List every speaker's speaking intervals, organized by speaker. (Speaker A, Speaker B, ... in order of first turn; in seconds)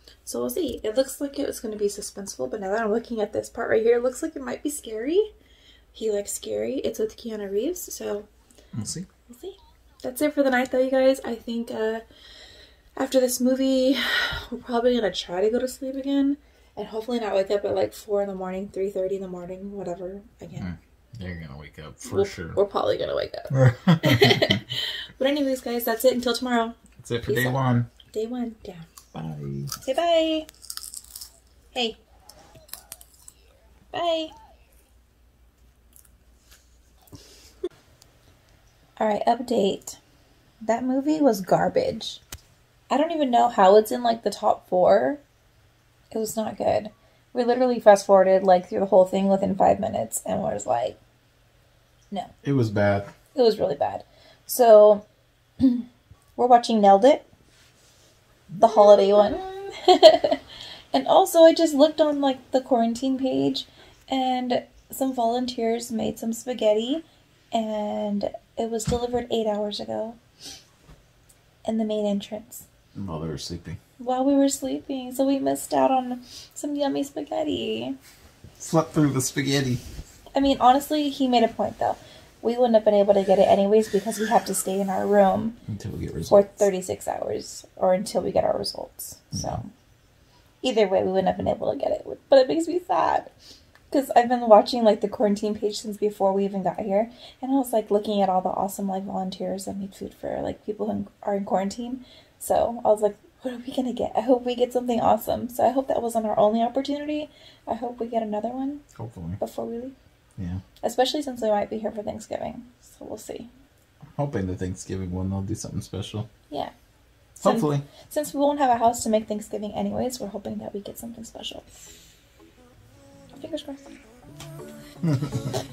Speaker A: 0.2-5.3, 5.9-8.3, 9.3-12.1, 13.0-20.7, 22.1-26.8, 27.3-27.6, 28.1-28.9, 29.8-30.5, 31.7-32.0, 33.9-34.3, 39.0-40.0, 40.6-42.2, 42.9-45.2, 46.1-51.0, 53.4-55.0, 55.6-57.2, 58.6-60.4, 60.9-70.2, 71.7-72.7, 74.0-78.0, 80.3-85.6, 86.3-89.7, 90.6-93.3, 93.9-108.8, 109.4-110.0, 110.8-113.5, 117.4-121.7, 123.3-123.9
Speaker B: 8.7-9.1, 20.6-22.6, 23.5-24.6, 27.0-27.9, 29.1-29.8, 52.4-53.1, 73.0-73.8, 78.6-79.8, 85.7-86.7, 89.3-89.6, 109.0-109.4, 110.4-110.6, 114.2-116.3, 117.4-117.9, 125.0-125.6